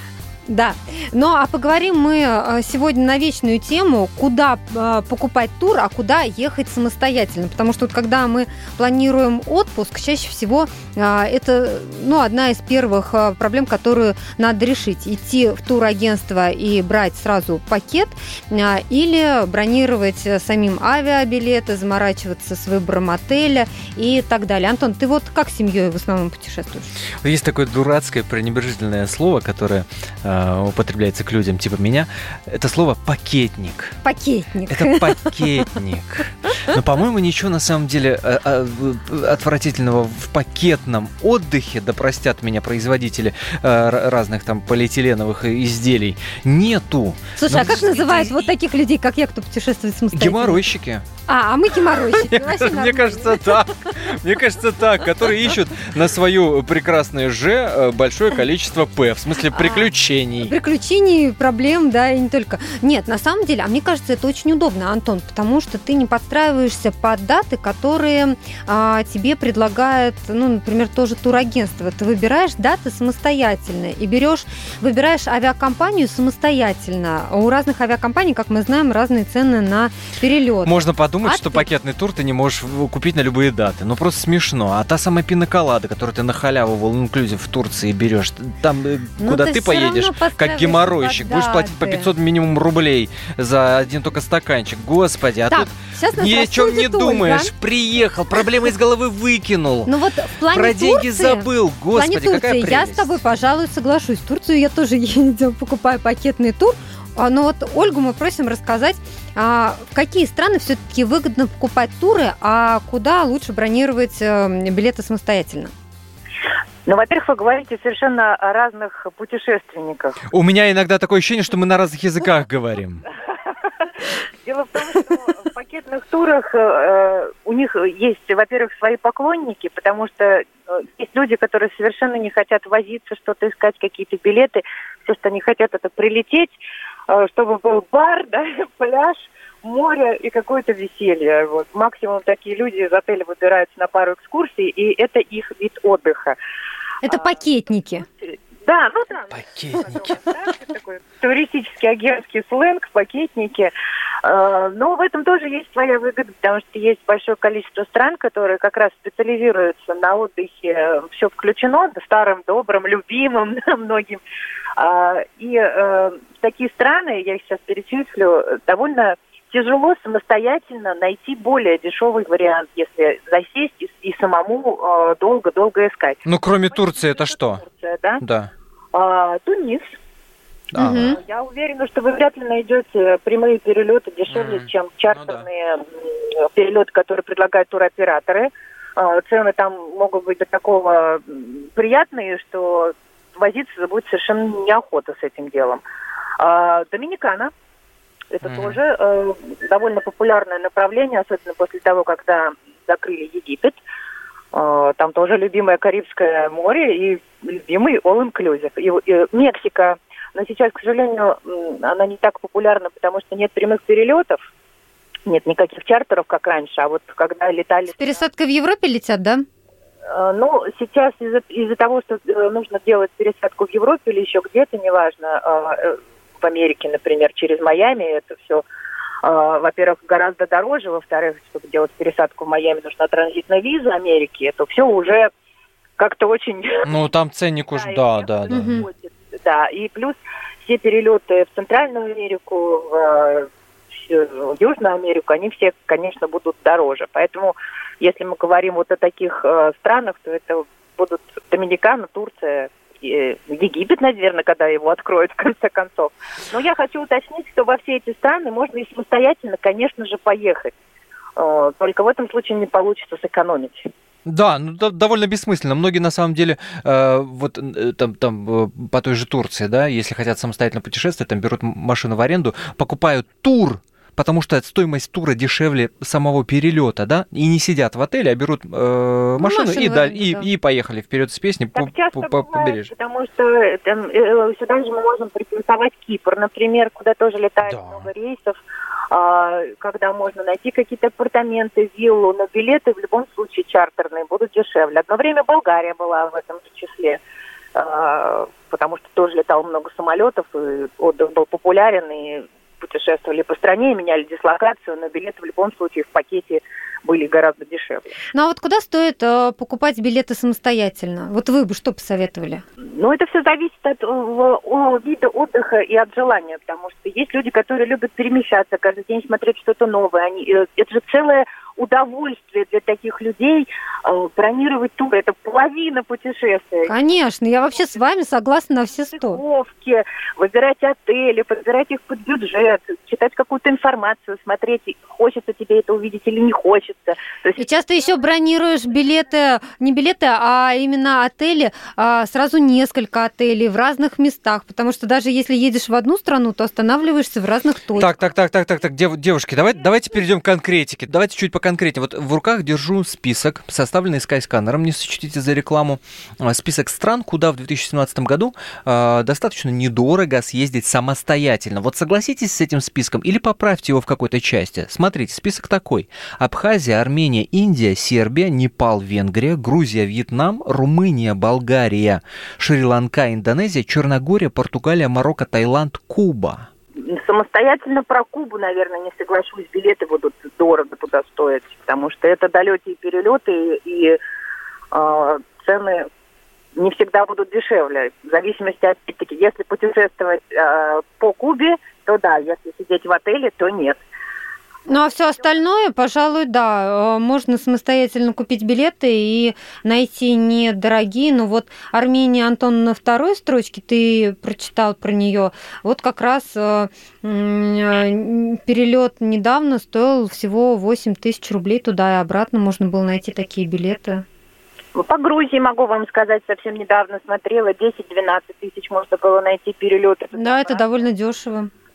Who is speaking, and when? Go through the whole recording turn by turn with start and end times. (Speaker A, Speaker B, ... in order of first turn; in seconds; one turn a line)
Speaker A: 0.5-26.9
Speaker B: 27.2-33.9
Speaker A: 34.0-35.6
Speaker B: 34.7-48.5
Speaker A: 47.4-50.6
Speaker B: 50.1-51.0
Speaker A: 51.3-53.6
Speaker B: 52.0-60.5
Speaker A: 59.6-59.9
Speaker A: 60.4-81.7
Speaker B: 80.6-99.9
Speaker A: 89.2-92.1
Speaker A: 95.5-97.5
Speaker A: 99.8-115.7
Speaker B: 100.5-103.2
Speaker C: 116.8-120.2
Speaker B: 120.3-123.0
Speaker C: 123.3-146.4
Speaker A: 147.0-148.0
Speaker C: 147.1-147.3
Speaker C: 148.2-153.7
Speaker B: 149.3-150.2
Speaker C: 154.2-164.2
Speaker C: 164.8-178.2
Speaker B: 176.2-177.6
Speaker B: 178.2-178.5
Speaker C: 178.9-179.9
Speaker B: 180.7-181.2
Speaker A: 180.8-181.2
Speaker C: 180.9-195.8
Speaker B: 184.3-185.4
Speaker C: 196.4-197.5
Speaker C: 198.3-203.8
Speaker B: 198.4-198.8
Speaker C: 204.5-214.4
Speaker C: 215.3-218.1
Speaker A: 218.0-219.4
Speaker C: 220.1-228.6
Speaker C: 229.2-235.3
Speaker C: 236.0-236.9
Speaker B: 236.8-238.8
Speaker C: 237.7-243.5
Speaker A: 238.5-238.8
Speaker C: 244.1-260.7
Speaker C: 261.4-263.9
Speaker B: 264.2-282.9
Speaker A: 279.4-280.5
Speaker C: 281.8-288.6
Speaker B: 287.6-288.1
Speaker C: 289.1-297.2
Speaker C: 297.7-308.2
Speaker A: 308.3-312.6
Speaker C: 312.9-326.9
Speaker A: 326.9-329.4
Speaker C: 329.1-337.6
Speaker A: 337.6-348.1
Speaker B: 347.9-376.7
Speaker C: 377.0-384.2
Speaker C: 384.9-386.1
Speaker C: 386.8-394.0
Speaker A: 394.9-414.2
Speaker C: 414.9-421.1
Speaker A: 420.4-421.7